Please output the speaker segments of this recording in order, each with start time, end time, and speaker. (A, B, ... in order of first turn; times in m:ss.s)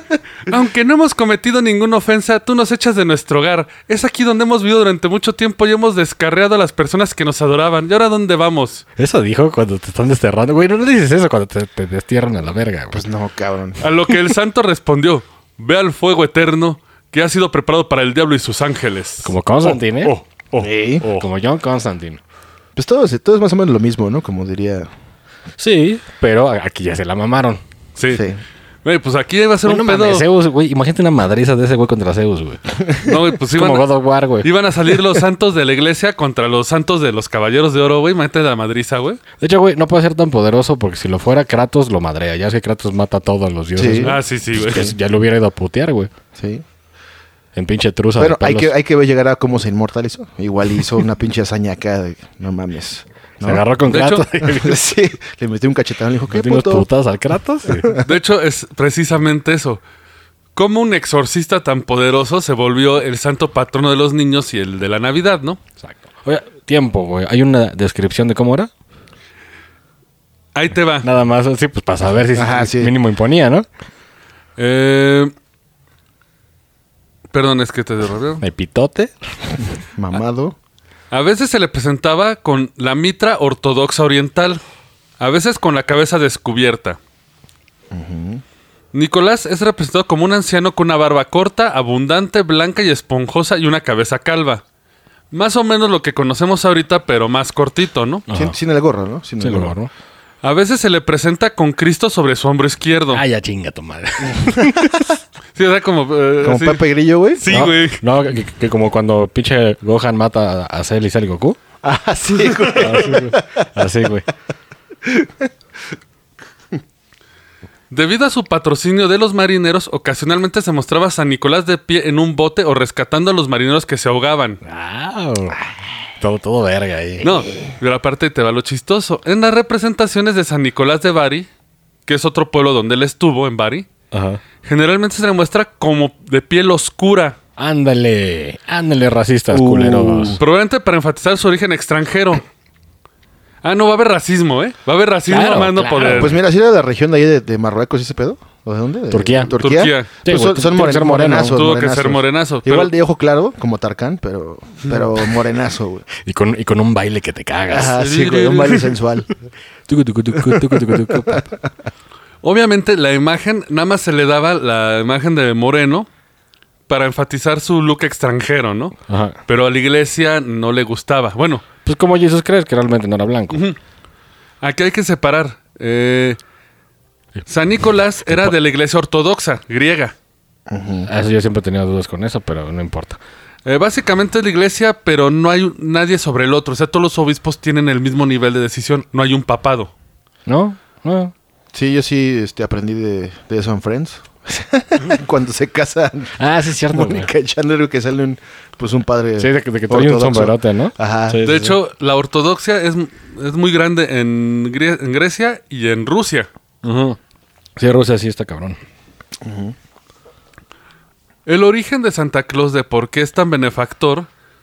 0:00.5-0:08.8 A
0:09.0-0:13.0 B
0:12.9-0:13.8 C
0:13.8-0:21.2 A
0:19.2-0:20.4 B
0:20.6-0:21.1 C
0:21.0-0:22.2 B
0:22.8-0:24.9 C
0:25.6-0:27.6 B
0:28.0-0:28.2 A
0:28.1-0:28.4 C
0:28.8-0:30.2 A
0:29.6-0:32.6 B
0:33.0-0:33.9 A
0:33.5-0:34.5 B
0:34.4-0:39.2 A
0:39.4-0:46.1 B
0:43.8-0:44.2 C
0:44.0-0:44.9 A
0:46.4-0:46.6 C
0:47.5-0:48.7 B
0:48.2-0:53.6 C
0:53.4-0:54.8 B
0:53.9-0:54.3 A
0:54.4-0:56.9 C
0:56.3-0:57.9 B
0:57.7-0:58.0 C
0:58.0-0:59.8 A
1:00.6-1:05.6 A
1:05.8-1:08.7 B
1:10.6-1:11.1 A
1:11.0-1:13.7 B
1:12.4-1:12.9 C
1:14.6-1:15.3 A
1:17.3-1:18.4 A
1:18.4-1:19.2 B
1:20.0-1:20.6 C
1:21.1-1:24.6 A
1:25.2-1:27.0 A
1:27.9-1:28.4 C
1:28.9-1:34.6 A
1:35.3-1:38.2 A
1:38.3-1:38.6 B
1:38.3-1:39.8 C
1:39.4-1:39.9 B
1:40.4-1:43.2 A
1:43.1-1:45.1 B
1:44.2-1:45.1 C
1:45.6-1:46.8 A
1:46.4-1:47.4 C
1:47.4-1:48.0 A
1:47.5-1:51.6 B
1:51.8-1:53.7 C
1:52.8-1:54.3 B
1:55.1-1:55.5 C
1:57.9-2:04.6 A
2:04.6-2:05.6 B
2:06.2-2:07.3 B
2:07.2-2:11.5 A
2:12.1-2:13.9 A
2:14.1-2:14.4 B
2:14.6-2:17.4 A
2:17.6-2:20.4 B
2:19.5-2:20.4 C
2:20.4-2:22.4 A
2:23.6-2:26.4 A
2:25.3-2:26.4 B
2:26.0-2:36.1 C
2:29.1-2:29.5 B
2:29.6-2:30.1 A
2:30.2-2:31.6 B
2:31.5-2:32.9 A
2:36.2-2:37.9 B
2:37.7-2:39.3 C
2:37.9-2:38.9 A
2:39.9-2:41.5 B
2:40.5-2:41.5 C
2:42.4-2:46.1 A
2:46.9-2:49.0 A
2:49.1-2:49.4 B
2:49.5-2:51.6 A
2:51.8-2:53.6 B
2:53.5-2:53.8 A
2:54.6-2:56.4 A
2:57.5-3:00.2 A
2:58.3-2:58.5 B
3:00.7-3:01.1 C
3:01.1-3:03.2 B
3:03.7-3:09.9 A
3:10.5-3:11.3 B
3:11.7-3:16.4 C
3:16.4-3:17.3 B
3:16.9-3:21.4 C
3:19.4-3:21.8 B
3:21.4-3:26.5 A
3:26.8-3:27.2 B
3:27.8-3:28.8 B
3:29.4-3:29.8 C
3:31.5-3:34.3 A